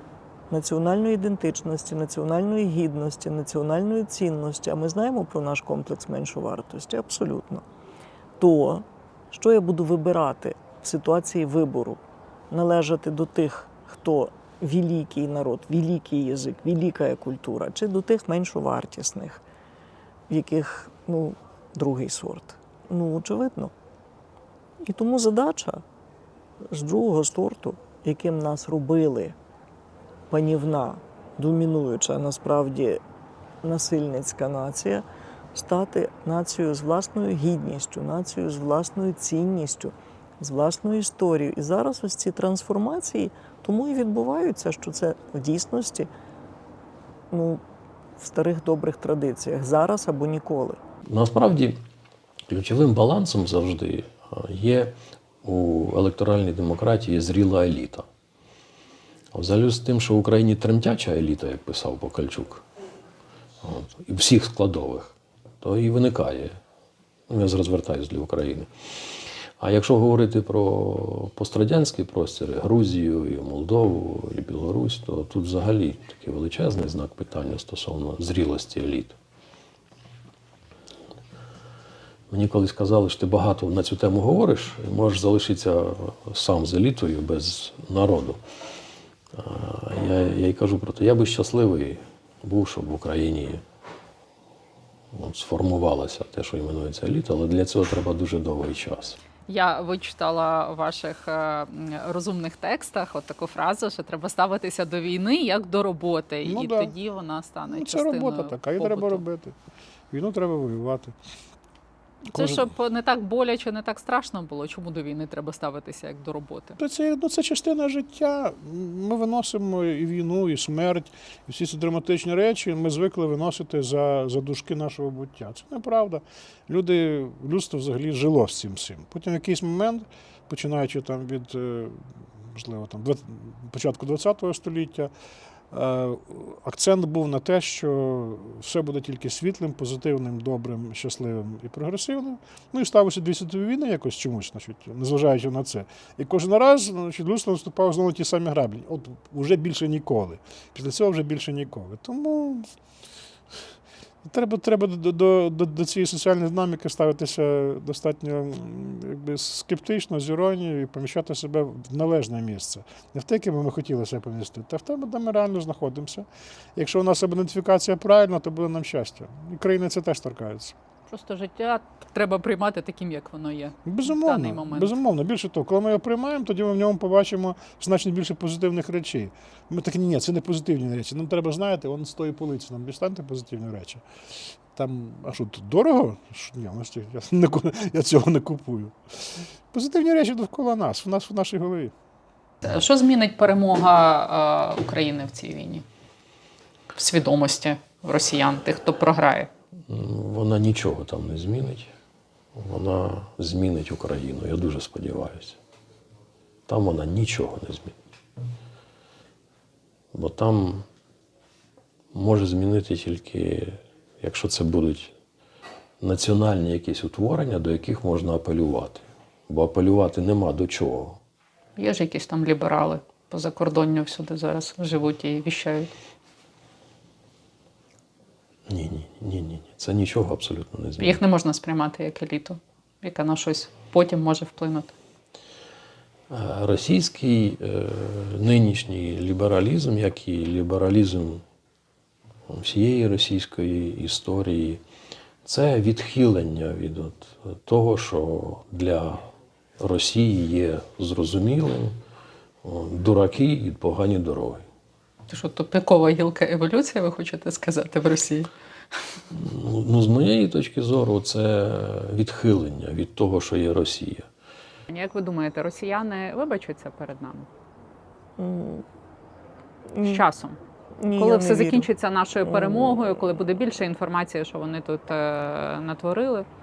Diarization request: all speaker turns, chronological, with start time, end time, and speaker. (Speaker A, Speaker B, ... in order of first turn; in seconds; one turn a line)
Speaker A: 0.5-7.7
Speaker A: 8.4-19.4
Speaker A: 20.3-23.7
Speaker A: 24.8-25.8
Speaker A: 26.6-29.4
Speaker A: 30.3-33.0
Speaker A: 33.6-46.1
Speaker A: 47.3-47.6
Speaker A: 48.2-50.8
Speaker B: 51.1-51.8
Speaker B: 52.5-58.1
Speaker B: 59.3-62.6
Speaker B: 63.6-66.6
Speaker B: 67.3-68.7
Speaker B: 69.6-79.2
Speaker B: 82.3-88.4
Speaker B: 89.3-93.6
Speaker B: 95.1-99.2
Speaker C: 99.5-109.2
Speaker D: 106.5-106.9
Speaker D: 107.7-109.6
Speaker D: 110.1-111.2
Speaker D: 112.3-112.7
Speaker C: 112.3-116.8
Speaker D: 116.8-135.1
Speaker D: 135.7-152.7
Speaker D: 154.2-170.8
Speaker C: 171.1-174.9
Speaker D: 173.9-184.0
Speaker D: 184.7-191.9
Speaker C: 192.6-195.8
Speaker C: 196.9-199.5
Speaker B: 199.9-201.9
Speaker B: 202.6-205.6
Speaker B: 206.7-208.0
Speaker B: 210.1-210.9
Speaker B: 212.1-215.1
Speaker B: 216.0-221.2
Speaker C: 221.8-225.9
Speaker B: 228.7-231.2
Speaker C: 231.0-234.9
Speaker B: 236.3-241.4
Speaker B: 242.5-244.8
Speaker B: 245.4-252.0
Speaker B: 252.6-254.7
Speaker C: 255.3-258.5
Speaker B: 259.3-264.3
Speaker C: 264.9-267.5
Speaker A: 268.4-268.9
Speaker A: 269.9-270.2
Speaker C: 270.0-270.6
Speaker A: 271.0-271.9
Speaker C: 271.2-276.5
Speaker A: 272.4-273.1